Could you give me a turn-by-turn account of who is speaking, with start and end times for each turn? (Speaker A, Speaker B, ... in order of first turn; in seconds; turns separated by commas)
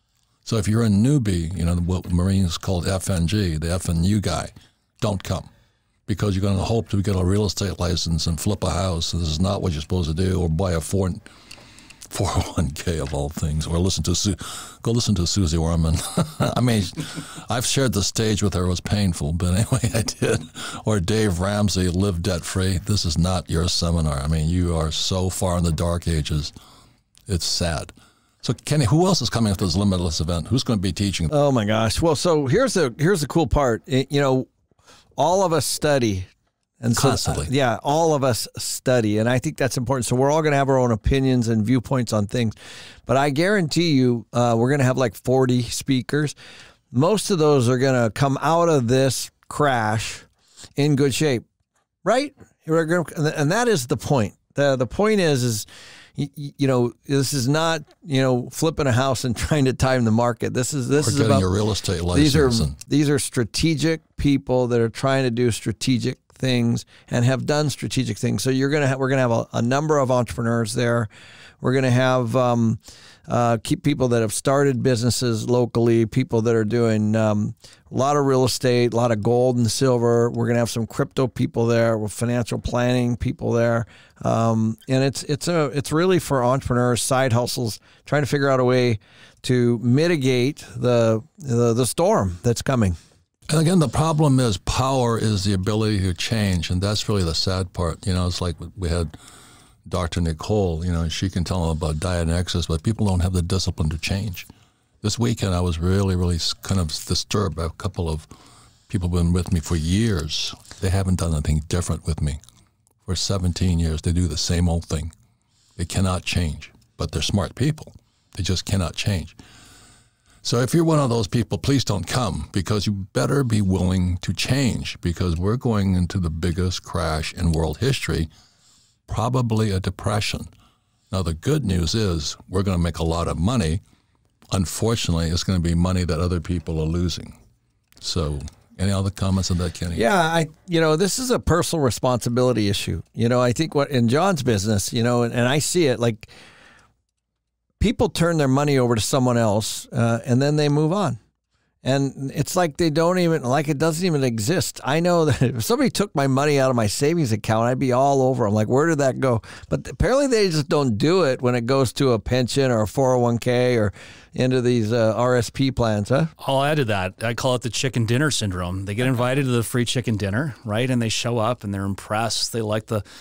Speaker A: 0.4-5.5, Speaker A: 6.1-11.2, Speaker A: 12.1-26.5, Speaker A: 27.3-31.3, Speaker B: 31.3-34.5, Speaker B: 35.2-36.3, Speaker B: 36.8-42.5, Speaker A: 36.9-37.5, Speaker B: 43.0-46.3, Speaker B: 46.9-51.4, Speaker B: 52.0-61.5, Speaker A: 61.0-62.8, Speaker B: 62.1-71.1, Speaker B: 71.6-93.0, Speaker A: 93.5-99.2, Speaker A: 99.8-104.5, Speaker A: 105.0-108.3, Speaker A: 108.9-112.4, Speaker A: 113.0-115.1, Speaker A: 115.8-119.3, Speaker A: 120.4-128.3, Speaker A: 129.1-130.5, Speaker A: 131.1-133.8, Speaker A: 134.5-137.4, Speaker A: 138.0-140.0, Speaker B: 139.9-146.3, Speaker B: 147.8-151.2, Speaker B: 151.8-166.3, Speaker C: 166.4-173.0